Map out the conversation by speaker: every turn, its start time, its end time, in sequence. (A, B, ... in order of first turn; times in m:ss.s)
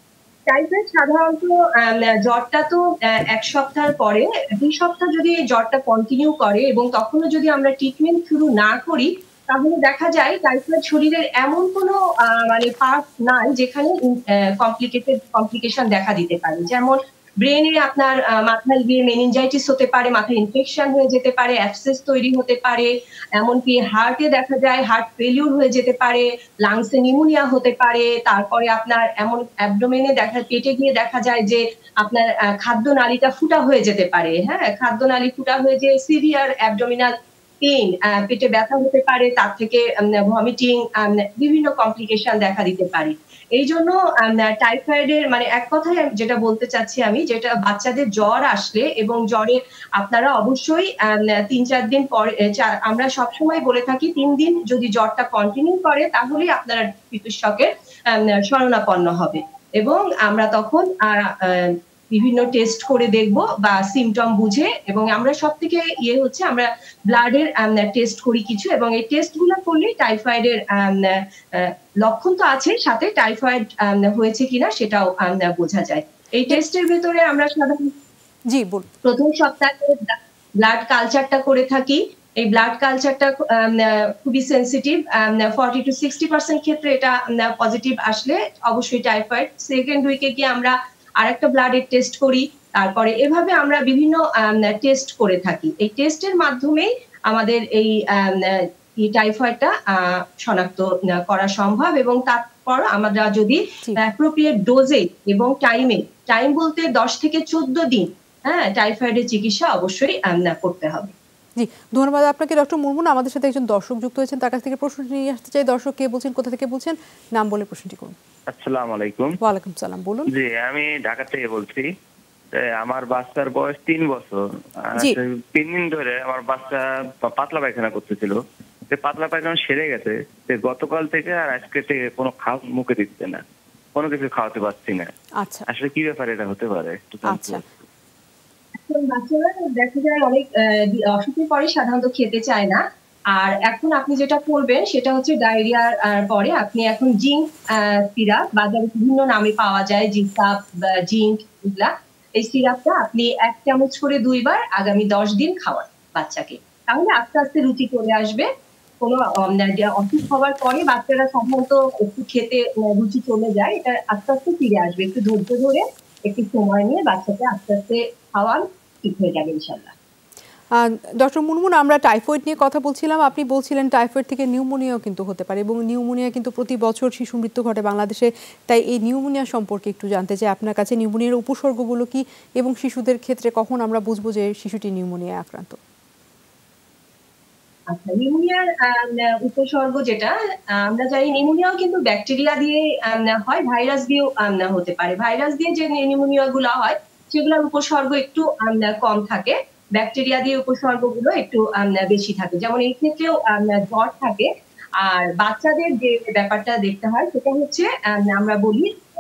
0:00.5-1:17.9 A
1:18.5-1:18.9 B
1:19.0-1:51.1 A
1:51.6-1:58.2 B
1:58.5-1:59.4 C
1:59.4-2:00.3 B
2:00.3-2:01.9 C
2:02.5-2:13.4 C
2:14.0-2:15.1 C
2:15.4-2:15.7 B
2:15.7-2:17.6 C
2:17.2-2:17.6 B
2:18.8-2:22.8 A
2:23.3-2:38.5 A
2:39.0-2:49.9 A
2:50.8-3:05.8 B
3:07.9-3:24.5 A
3:25.0-3:28.9 A